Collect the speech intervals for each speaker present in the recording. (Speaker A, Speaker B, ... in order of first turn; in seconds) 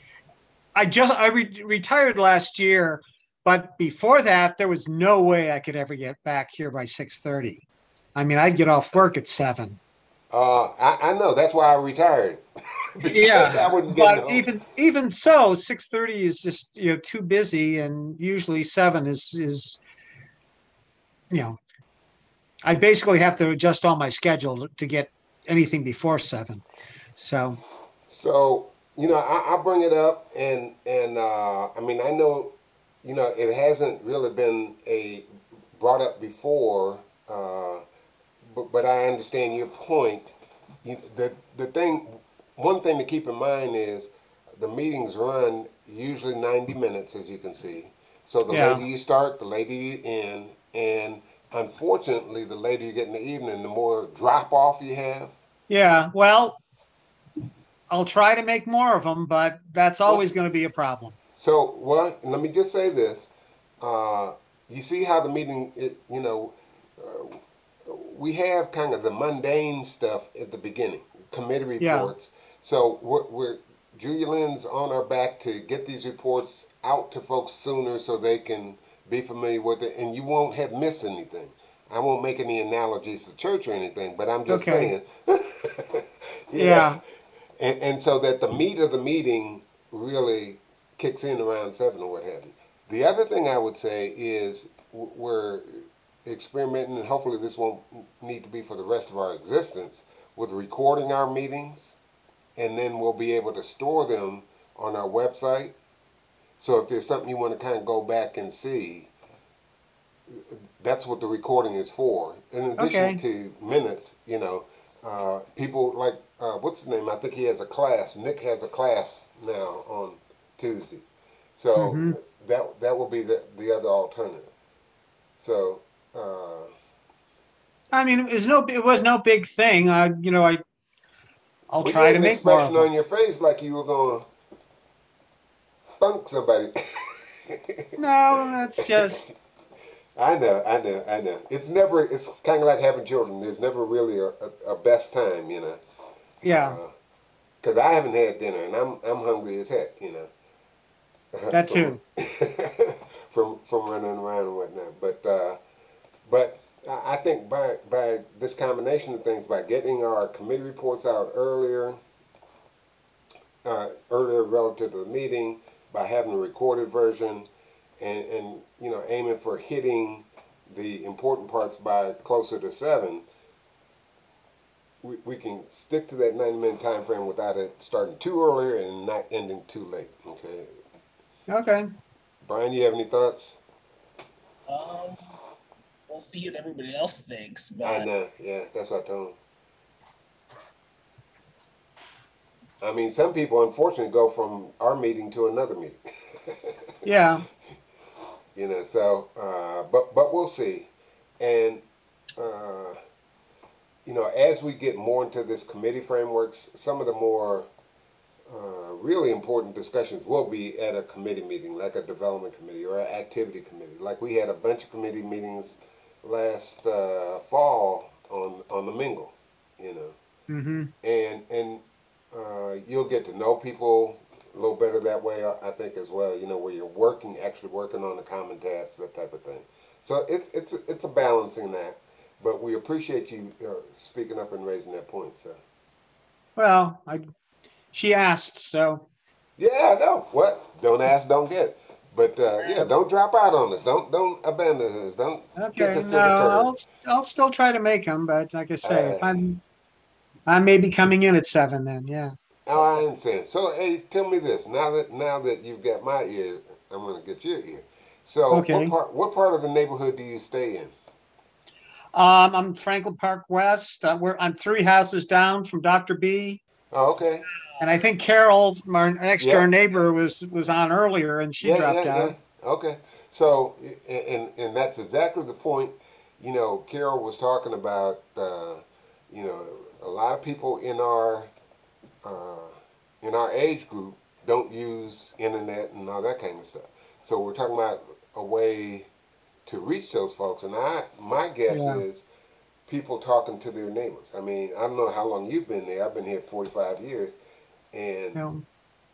Speaker A: 0.8-7.6, 8.2-9.8, 13.1-19.8, 21.3-21.6, 22.6-26.6, 27.2-27.6, 48.5-48.8, 55.7-56.6, 57.9-61.2, 71.8-72.1, 84.5-84.9, 86.5-87.0, 112.8-113.2, 121.8-122.2, 127.9-130.6, 131.7-132.9, 138.0-139.2, 146.4-146.8, 151.5-152.0, 181.5-181.9, 197.1-197.4, 220.5-220.9, 236.6-237.3, 237.9-239.1, 245.6-249.6, 250.5-252.4, 258.5-258.9, 262.1-266.6, 267.8-272.4, 291.7-292.0, 298.4-298.6
Speaker B: 10.3-14.5, 28.1-37.9, 38.4-40.3, 40.8-55.3, 60.0-60.4, 61.4-63.3, 63.8-87.0, 87.6-102.0, 102.6-105.8, 106.6-109.1, 110.3-124.5, 125.4-126.7, 131.8-134.3, 136.0-137.9, 138.8-139.3, 140.2-145.8, 146.5-146.9, 147.6-150.3, 151.3-155.6, 156.2-162.0, 163.6-173.3, 175.0-180.8, 182.4-183.6, 187.8-189.4, 192.8-196.7, 198.6-201.8, 202.4-203.0, 204.1-207.7, 208.5-220.2, 221.0-235.6, 239.6-246.8, 248.8-249.4, 252.7-260.9, 266.9-267.4, 269.4-269.7, 271.6-281.5, 282.2-289.1, 289.7-292.2, 292.9-297.4, 297.9-298.4
Speaker C: 184.7-185.4, 186.1-188.1, 242.6-242.9